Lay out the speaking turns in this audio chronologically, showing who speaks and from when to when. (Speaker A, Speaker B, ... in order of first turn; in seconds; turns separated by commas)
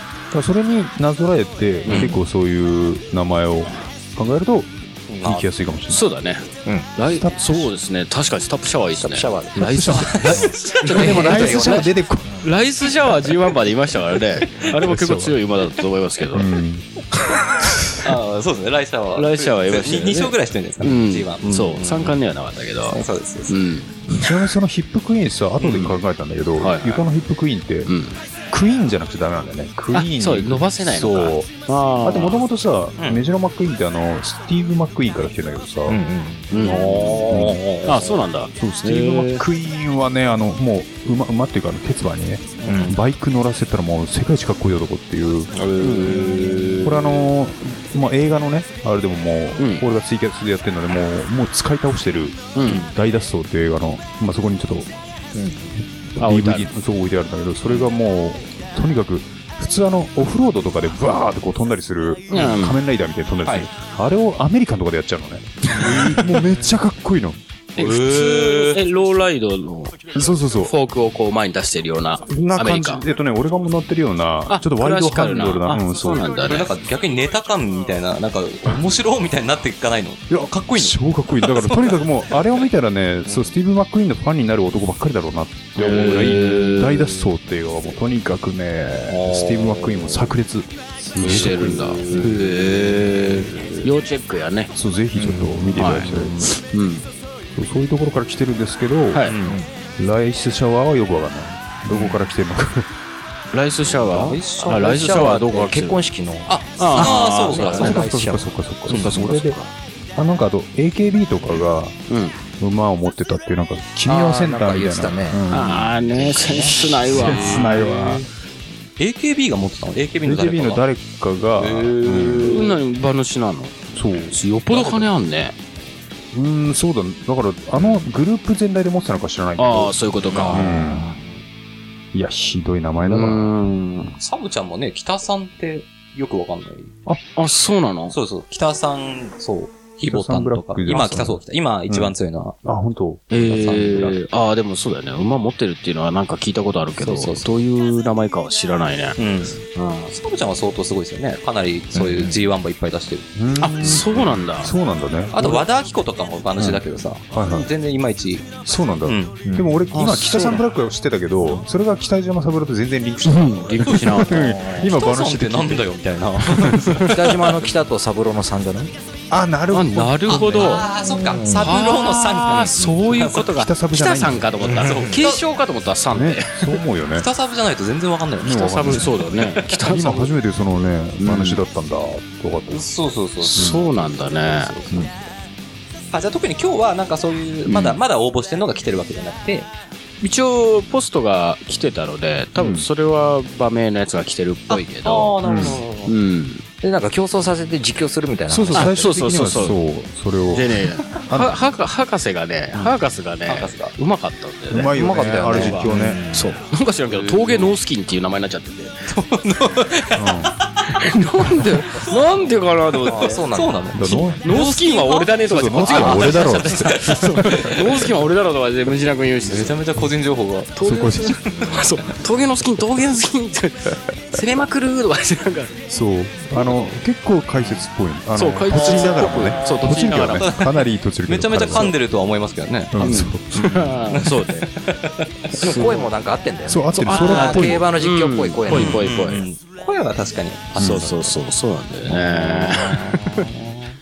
Speaker A: 0.3-4.7, Speaker B: 1.9-2.2, Speaker C: 5.1-5.5, Speaker A: 5.2-6.0, Speaker B: 5.9-11.9, Speaker A: 7.0-7.7, Speaker D: 9.0-12.4, Speaker A: 9.6-12.4, Speaker C: 10.0-10.5, Speaker B: 12.4-16.6, Speaker A: 14.7-15.4, Speaker A: 16.3-16.9, Speaker C: 18.0-22.2, Speaker B: 19.1-24.3, Speaker C: 22.9-23.6, Speaker A: 24.1-27.9, Speaker C: 25.6-25.9, Speaker B: 25.6-25.9, Speaker B: 26.6-27.0, Speaker B: 27.9-28.2, Speaker A: 28.5-31.5, Speaker B: 29.9-32.4, Speaker A: 32.0-36.0, Speaker C: 33.0-33.2, Speaker D: 35.9-36.5, Speaker B: 36.5-37.1, Speaker C: 36.5-38.2, Speaker A: 36.6-37.6, Speaker B: 37.8-39.4, Speaker A: 38.5-45.5, Speaker C: 42.6-42.9, Speaker D: 42.6-43.0, Speaker C: 45.5-47.3, Speaker B: 45.8-46.9, Speaker A: 46.8-54.9, Speaker B: 49.6-49.9, Speaker B: 52.5-52.9, Speaker D: 55.3-55.7, Speaker A: 56.1-67.4, Speaker B: 56.2-56.7, Speaker B: 62.3-62.8, Speaker C: 65.8-66.2, Speaker C: 67.8-68.8, Speaker B: 67.8-73.0, Speaker A: 70.1-70.7, Speaker A: 72.3-76.3, Speaker B: 74.5-76.7, Speaker C: 76.4-82.3, Speaker A: 80.3-92.5, Speaker B: 85.8-87.3, Speaker C: 89.0-90.3, Speaker B: 91.2-94.7, Speaker C: 91.2-93.8, Speaker A: 94.7-96.5, Speaker D: 95.2-95.6, Speaker B: 95.7-97.0, Speaker C: 95.9-96.4, Speaker A: 97.5-99.2, Speaker C: 99.2-99.6, Speaker A: 100.0-102.9, Speaker B: 101.9-102.2, Speaker B: 103.5-106.0, Speaker D: 104.0-108.5, Speaker C: 106.5-108.0, Speaker B: 106.8-108.0, Speaker A: 107.6-109.6, Speaker B: 108.9-109.7, Speaker A: 110.1-112.0, Speaker B: 112.1-112.4, Speaker A: 112.6-115.9, Speaker D: 114.0-115.4, Speaker B: 115.5-117.8, Speaker D: 116.1-117.0, Speaker A: 117.1-118.2, Speaker C: 117.1-118.2, Speaker C: 119.0-120.8, Speaker A: 120.2-122.6, Speaker C: 121.5-122.8, Speaker B: 122.5-123.7, Speaker A: 123.9-124.4, Speaker B: 124.3-125.5, Speaker A: 126.3-129.9, Speaker B: 129.6-130.7, Speaker D: 130.3-131.2, Speaker A: 130.5-131.1, Speaker A: 132.1-133.5, Speaker B: 133.1-134.1, Speaker C: 134.2-136.9, Speaker B: 137.3-138.2, Speaker C: 138.1-142.6, Speaker A: 140.0-142.1, Speaker A: 142.6-143.3, Speaker B: 143.3-149.2, Speaker C: 143.3-144.2, Speaker C: 147.0-147.5, Speaker C: 149.2-153.3, Speaker B: 149.8-150.1, Speaker D: 151.9-152.3, Speaker A: 153.3-155.7, Speaker B: 153.6-154.7, Speaker C: 155.3-159.4, Speaker A: 156.6-157.7, Speaker A: 158.6-165.9, Speaker D: 159.4-159.8, Speaker B: 159.9-160.6, Speaker B: 163.2-164.3, Speaker C: 163.9-164.2, Speaker D: 164.3-164.9, Speaker C: 164.8-167.6, Speaker A: 166.4-167.1, Speaker B: 166.6-167.1, Speaker D: 167.1-168.9, Speaker A: 169.3-170.8, Speaker B: 169.7-170.9, Speaker C: 170.3-173.5, Speaker D: 170.9-171.7, Speaker B: 171.5-176.7, Speaker A: 173.5-174.6, Speaker D: 174.6-175.2, Speaker C: 174.7-175.4, Speaker A: 176.1-177.3, Speaker C: 177.2-179.8, Speaker A: 178.4-179.2, Speaker B: 178.4-180.3, Speaker A: 179.8-182.9, Speaker B: 181.2-181.6, Speaker C: 182.7-185.3, Speaker B: 183.4-184.8, Speaker A: 183.5-183.9, Speaker C: 186.1-189.7, Speaker B: 187.7-188.0, Speaker B: 190.2-196.6, Speaker A: 192.6-192.9, Speaker C: 194.7-196.1, Speaker A: 195.4-195.8, Speaker D: 196.8-199.1, Speaker A: 198.5-201.6, Speaker B: 198.7-199.8, Speaker B: 200.5-209.1, Speaker C: 203.5-203.9, Speaker A: 204.7-206.2, Speaker D: 204.9-206.6, Speaker C: 207.1-207.7, Speaker C: 209.1-210.9, Speaker A: 210.1-210.5, Speaker B: 210.8-213.4, Speaker C: 211.9-212.4, Speaker D: 213.1-213.9, Speaker C: 213.1-218.0, Speaker A: 213.9-214.5, Speaker B: 214.4-219.8, Speaker A: 215.4-217.7, Speaker C: 219.4-220.7, Speaker B: 220.8-225.7, Speaker A: 220.8-221.7, Speaker C: 221.4-221.8, Speaker A: 225.9-232.0, Speaker B: 228.3-230.5, Speaker C: 228.7-233.2, Speaker A: 232.9-233.9, Speaker B: 233.0-234.7, Speaker C: 234.1-235.9, Speaker B: 235.6-236.0, Speaker D: 235.6-239.1, Speaker A: 236.6-237.9, Speaker B: 237.0-239.4, Speaker C: 237.2-237.7, Speaker C: 238.7-241.4, Speaker B: 240.8-243.5, Speaker A: 240.8-241.1, Speaker C: 242.1-243.4, Speaker D: 242.9-243.5